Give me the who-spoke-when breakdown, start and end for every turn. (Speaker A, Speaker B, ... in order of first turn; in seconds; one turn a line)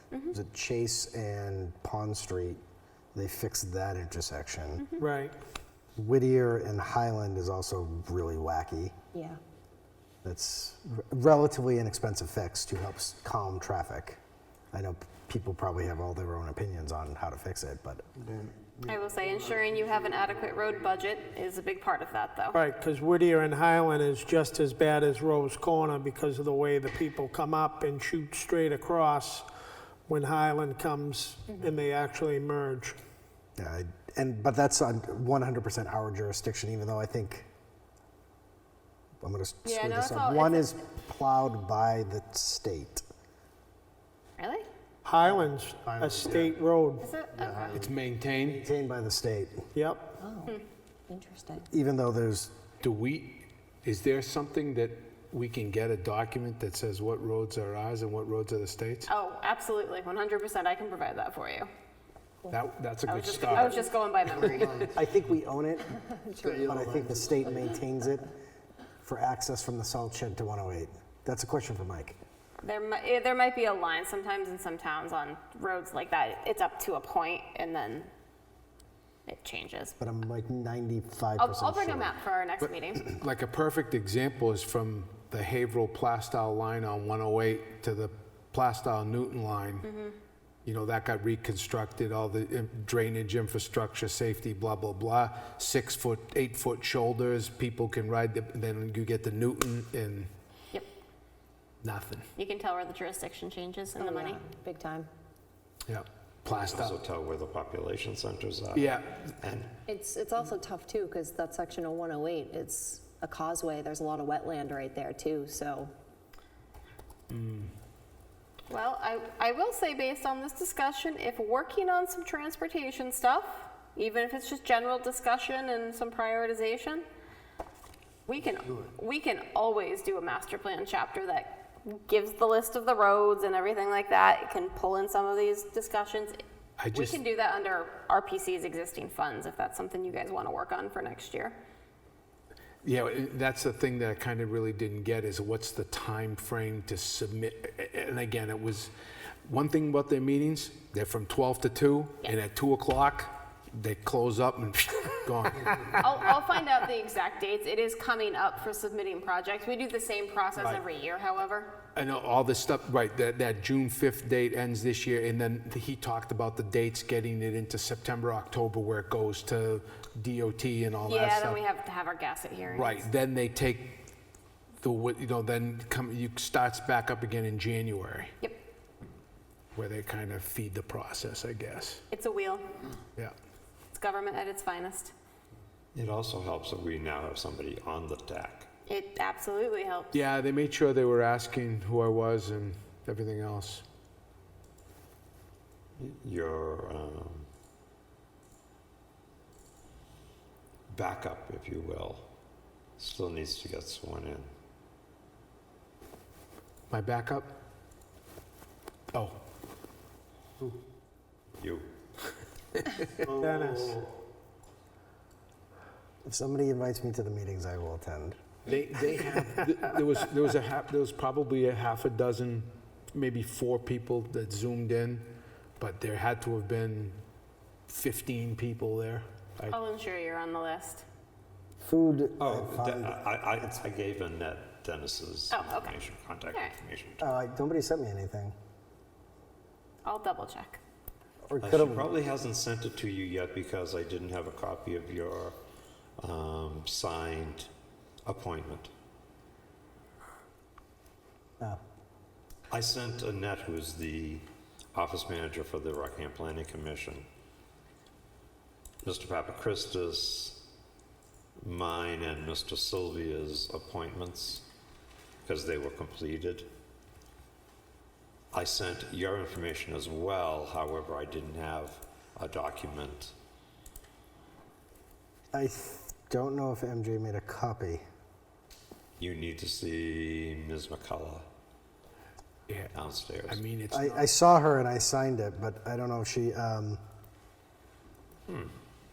Speaker A: 0.3-2.6
Speaker A: 3.1-4.9
Speaker B: 5.0-5.3
Speaker A: 6.0-8.9
Speaker C: 9.1-9.4
Speaker A: 10.2-14.2
Speaker A: 14.7-18.0
Speaker D: 18.8-22.6
Speaker B: 22.5-29.5
Speaker B: 30.1-33.0
Speaker A: 33.6-37.5
Speaker A: 39.2-43.0
Speaker D: 39.6-40.7
Speaker D: 44.4-44.7
Speaker B: 45.0-47.1
Speaker A: 45.2-46.6
Speaker D: 47.0-47.9
Speaker A: 47.4-49.6
Speaker E: 47.7-48.6
Speaker B: 49.7-50.1
Speaker C: 50.1-50.6
Speaker C: 51.1-51.7
Speaker A: 51.7-52.5
Speaker E: 52.8-59.1
Speaker D: 59.1-61.7
Speaker E: 62.5-63.8
Speaker D: 63.1-64.9
Speaker A: 64.8-68.3
Speaker C: 66.2-66.5
Speaker A: 69.0-72.2
Speaker D: 72.6-78.1
Speaker D: 79.3-80.0
Speaker A: 80.0-82.1
Speaker D: 81.4-83.1
Speaker E: 83.1-89.9
Speaker D: 89.8-90.2
Speaker E: 90.7-100.3
Speaker E: 101.8-102.3
Speaker D: 102.4-104.4
Speaker C: 103.9-105.1
Speaker E: 105.9-107.0
Speaker F: 106.5-109.8
Speaker E: 108.8-109.2
Speaker C: 109.9-115.9
Speaker E: 117.3-117.7
Speaker D: 118.7-127.0
Speaker D: 128.3-136.4
Speaker E: 136.8-137.2
Speaker D: 136.9-141.6
Speaker E: 142.8-148.9
Speaker E: 149.5-156.0
Speaker D: 156.0-161.8
Speaker E: 161.9-171.6
Speaker D: 171.1-173.1
Speaker E: 172.7-174.0
Speaker E: 174.8-178.3
Speaker E: 179.8-182.0
Speaker D: 182.1-182.7
Speaker D: 183.9-185.1
Speaker F: 185.9-188.7
Speaker D: 188.9-190.2
Speaker E: 190.1-193.8
Speaker F: 196.0-197.5
Speaker F: 200.9-202.3
Speaker F: 203.0-204.5
Speaker E: 206.9-207.6
Speaker F: 211.6-211.9
Speaker B: 213.4-214.0
Speaker A: 216.2-218.4
Speaker E: 218.7-225.3
Speaker E: 225.8-227.2
Speaker E: 227.9-229.8
Speaker D: 229.7-231.0
Speaker A: 231.8-233.8
Speaker F: 232.4-237.4
Speaker D: 235.5-236.0
Speaker A: 237.2-238.6
Speaker D: 240.1-240.8
Speaker A: 241.5-242.1
Speaker F: 241.6-245.6
Speaker F: 246.2-247.7
Speaker F: 248.2-248.9
Speaker F: 252.7-257.3
Speaker F: 259.0-260.7
Speaker F: 261.6-264.6
Speaker F: 265.4-266.7
Speaker F: 268.5-273.3
Speaker A: 275.5-278.0
Speaker F: 279.2-281.5
Speaker E: 282.7-282.9
Speaker F: 282.9-283.6
Speaker E: 283.5-284.3
Speaker A: 283.9-287.0
Speaker F: 288.5-288.7